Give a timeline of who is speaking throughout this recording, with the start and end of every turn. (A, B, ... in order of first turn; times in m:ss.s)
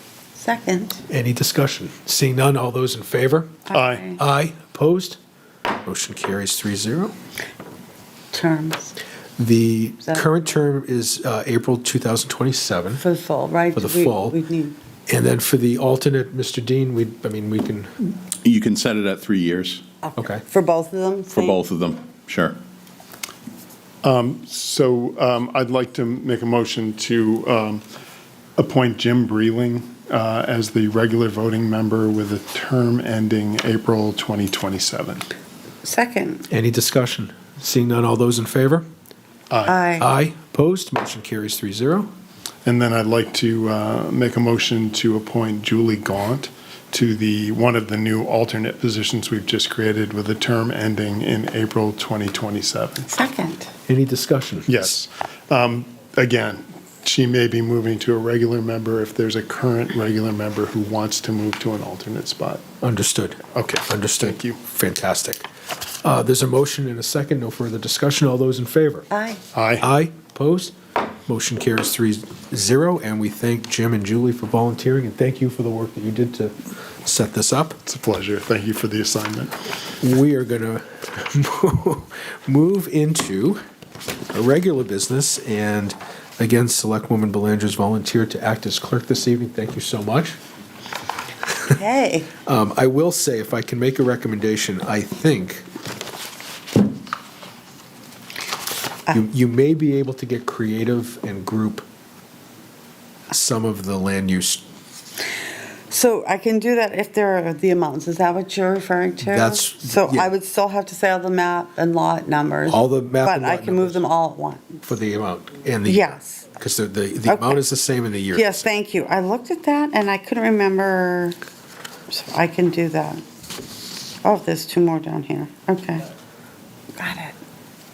0:00.4-0:01.0 A
0:01.1-0:03.6 B
0:03.7-0:04.2 A
0:03.7-0:04.0 C
0:04.2-0:05.2 B
0:05.8-0:07.1 B
0:08.3-0:08.9 A
0:09.4-0:13.0 B
0:13.0-0:14.8 A
0:13.7-0:14.4 B
0:15.1-0:17.9 B
0:18.4-0:19.8 D
0:20.0-0:21.6 A
0:20.2-0:20.4 B
0:21.3-0:22.6 D
0:24.0-0:27.8 C
0:28.6-0:35.3 C
0:35.8-0:36.5 A
0:36.5-0:38.8 B
0:39.5-0:39.8 C
0:39.7-0:40.1 A
0:40.0-0:42.1 B
0:42.6-0:53.1 C
0:53.1-0:53.7 A
0:53.9-0:54.9 B
0:54.7-1:02.6 C
1:02.8-1:05.4 B
1:03.5-1:04.6 C
1:06.0-1:09.1 B
1:09.1-1:09.4 A
1:09.5-1:09.9 C
1:09.8-1:10.7 B
1:11.3-1:17.8 B
1:17.8-1:19.5 C
1:20.0-1:23.6 B
1:24.3-1:30.4 B
1:31.7-1:32.3 A
1:32.4-1:35.6 B
1:39.1-1:41.8 B
1:43.3-1:44.6 B
1:45.9-1:54.9 A
1:49.2-1:50.3 B
1:52.7-1:54.0 B
1:54.9-1:56.1 B
1:55.8-1:56.5 A
1:56.6-1:58.7 B
1:57.2-1:57.6 A
1:58.3-2:01.4 A
2:02.1-2:03.2 A
2:04.2-2:06.1 A
2:07.0-2:07.4 A